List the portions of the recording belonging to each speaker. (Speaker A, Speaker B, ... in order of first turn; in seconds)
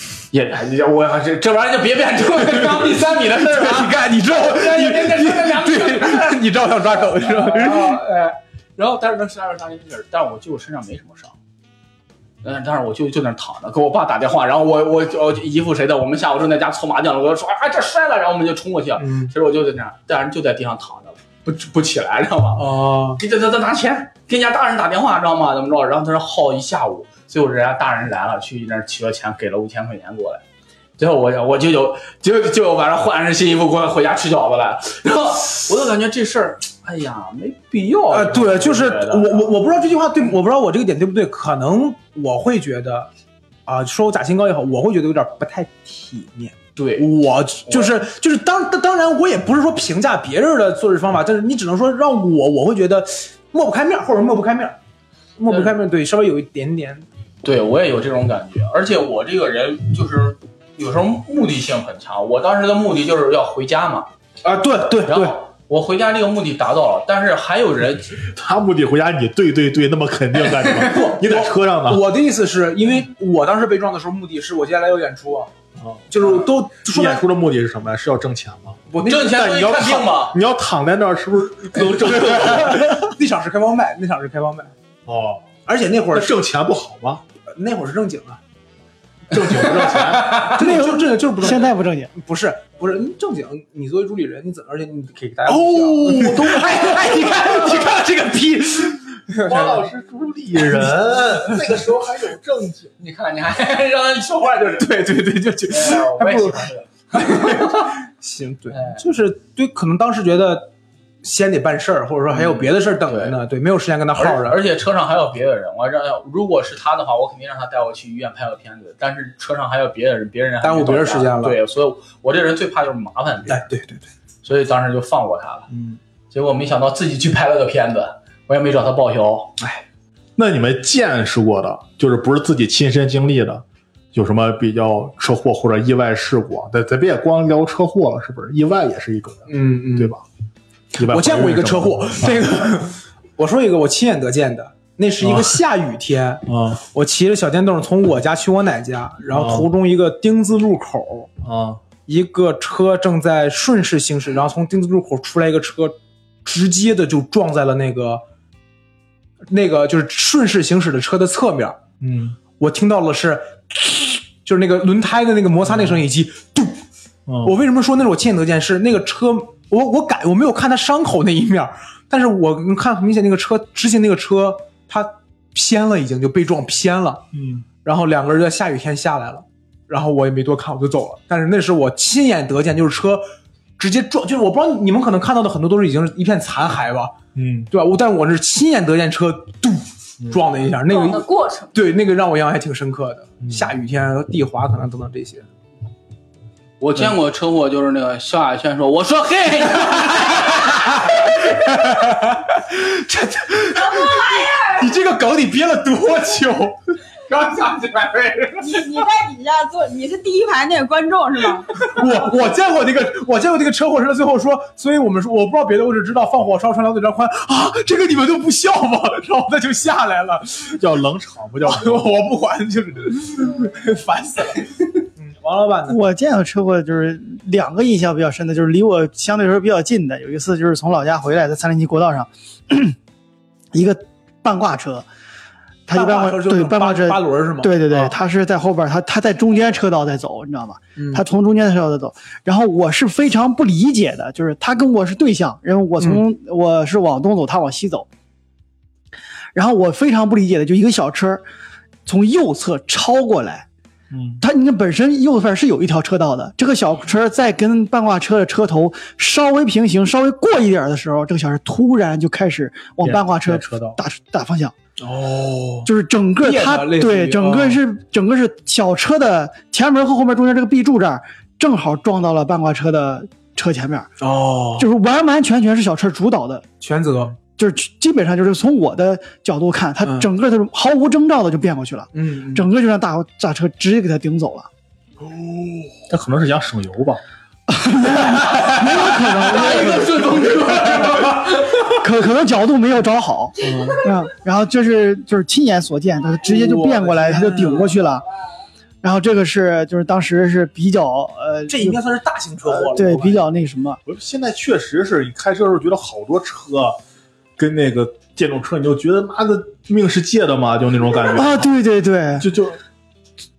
Speaker A: 0.3-11.3, 12.4-30.4, 31.0-39.5, 46.8-47.1, 47.7-48.0, 57.4-64.1, 65.1-68.2, 79.0-80.4, 90.0-90.5, 103.0-105.0, 105.7-107.9, 108.7-109.0, 112.3-113.4, 114.2-123.7, 124.4-125.7, 126.3-129.5, 196.8-201.1, 207.3-208.9, 288.5-291.9
Speaker B: 2.4-8.0, 19.0-19.3, 22.6-23.2, 38.1-43.1, 43.7-54.8, 55.4-57.0, 64.4-65.4, 70.8-75.5, 76.1-77.2, 78.9-79.7, 82.0-84.7, 85.7-86.3, 87.5-88.4, 89.9-99.9, 104.8-110.7, 111.2-114.6, 120.6-121.6, 123.5-124.1, 125.7-126.0, 129.6-129.8, 139.5-140.2, 141.0-151.3, 152.1-158.2, 159.5-161.8, 162.6-166.8, 167.4-177.2, 177.8-183.3, 183.8-187.1, 187.7-195.5, 199.7-206.8, 211.8-220.8, 221.6-226.0, 235.9-238.1, 240.9-241.2, 246.0-246.2, 265.0-265.9, 266.4-267.8, 274.2-274.9, 276.8-277.4, 280.0-280.3, 282.1-282.7, 285.3-285.9, 293.6-293.9, 296.4-298.0, 301.7-303.4
Speaker C: 68.2-72.0, 75.8-78.8, 79.3-83.1, 85.0-85.5, 86.1-87.2, 89.3-90.5, 95.5-97.5, 99.4-102.9, 130.4-140.2, 140.9-142.4, 145.2-145.5, 146.5-146.8, 149.3-149.7, 151.4-151.8, 162.0-162.4, 165.7-166.0, 167.3-167.5, 177.3-177.7, 187.3-187.7, 193.4-193.7, 220.8-222.1, 254.1-254.4, 263.0-264.0, 286.1-287.2, 304.1-307.0, 307.6-311.7, 312.4-312.8
Speaker D: 90.5-92.1, 225.9-232.9, 233.7-235.1, 235.9-248.1, 249.5-251.4, 252.1-253.7, 254.4-264.7, 265.8-274.1, 274.8-276.6, 277.6-284.7, 287.7-290.4, 291.9-298.2, 299.0-302.0, 302.6-304.0, 311.3-312.5
Speaker E: 190.8-191.7, 203.9-204.7, 208.6-212.0